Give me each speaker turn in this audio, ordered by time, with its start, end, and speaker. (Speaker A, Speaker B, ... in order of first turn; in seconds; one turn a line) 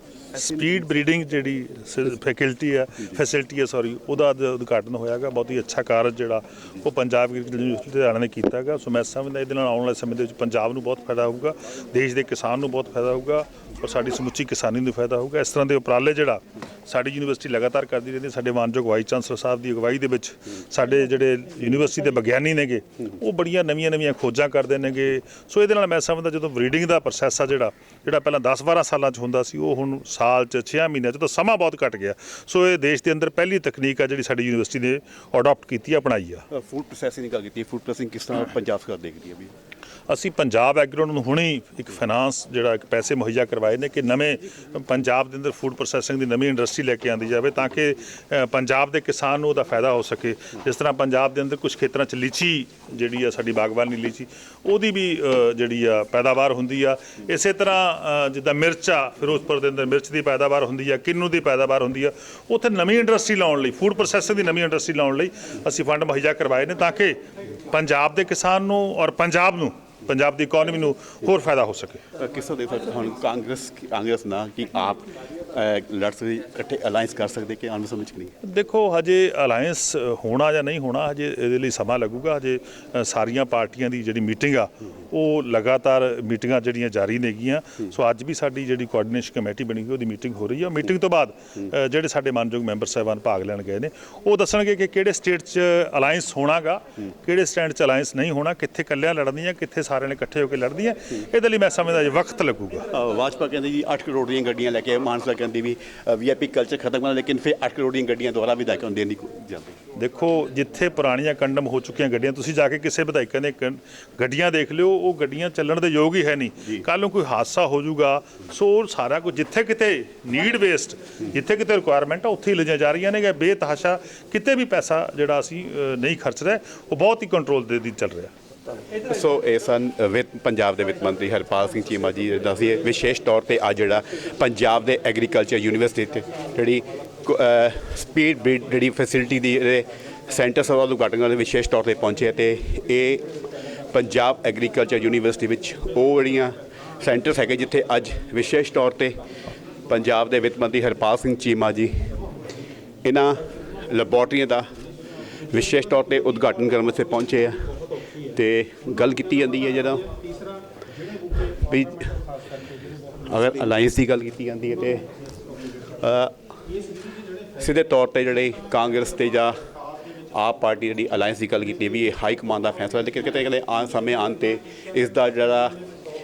Speaker A: 0.3-36.4
Speaker B: 36.5-39.5
Speaker A: 40.1-67.2
Speaker A: 67.7-72.0
Speaker B: 72.2-78.3
Speaker A: 78.4-102.9
Speaker B: 102.9-109.8
Speaker A: 110.0-128.3
Speaker B: 129.0-143.3
Speaker B: 143.9-149.2
Speaker B: 149.9-152.1
Speaker B: 153.0-154.7
Speaker B: 155.5-160.1
Speaker B: 161.5-162.2
Speaker B: 163.3-165.1
Speaker B: 166.0-166.4
Speaker B: 167.6-169.6
Speaker B: 170.3-175.8